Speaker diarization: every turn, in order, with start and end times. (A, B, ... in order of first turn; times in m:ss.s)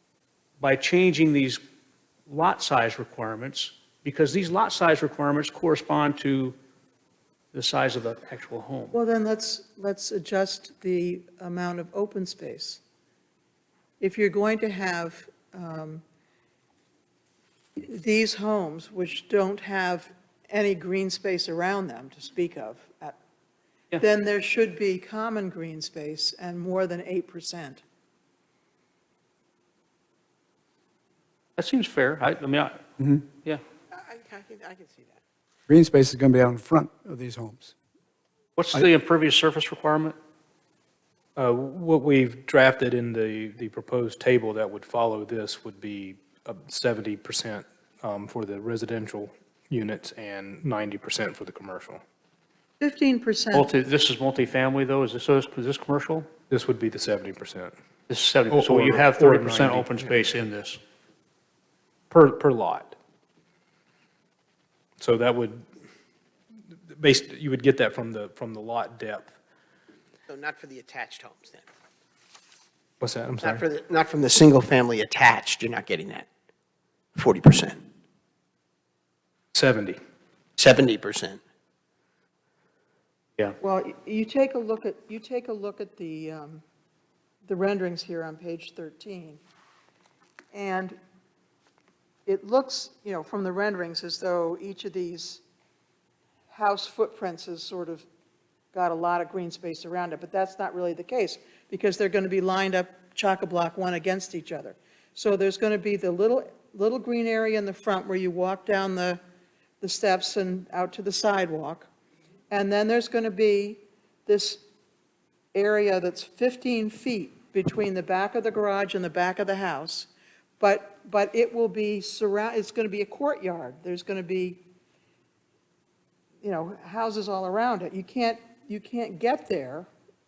0:00.6-0:01.6 A
0:02.3-0:06.6 A
0:07.5-0:09.0 A
0:08.9-0:12.8 B
0:14.0-0:16.0 B
0:17.8-0:23.2 B
0:24.0-0:27.8 B
0:31.6-0:33.6 A
0:33.9-0:35.2 C
0:35.7-0:37.7 D
0:38.6-0:40.2 A
0:41.4-0:52.0 E
0:52.8-0:53.7 B
0:53.5-0:56.3 A
0:56.5-0:57.7 E
0:58.1-1:00.8 A
0:58.5-1:00.1 E
1:02.1-1:03.0 E
1:05.0-1:05.6 E
1:06.9-1:09.3 E
1:10.3-1:11.7 C
1:13.0-1:13.6 E
1:13.4-1:16.3 C
1:17.1-1:17.8 C
1:19.5-1:20.0 E
1:20.6-1:21.4 C
1:23.6-1:26.6 B
1:27.4-1:29.4 B
1:30.5-1:30.9 B
1:32.2-1:35.4 B
1:36.5-1:38.0 B
1:38.7-1:49.2 B
1:49.8-1:51.9 B
1:52.5-1:54.6 B
1:55.5-2:04.6 B
2:06.4-2:09.9 B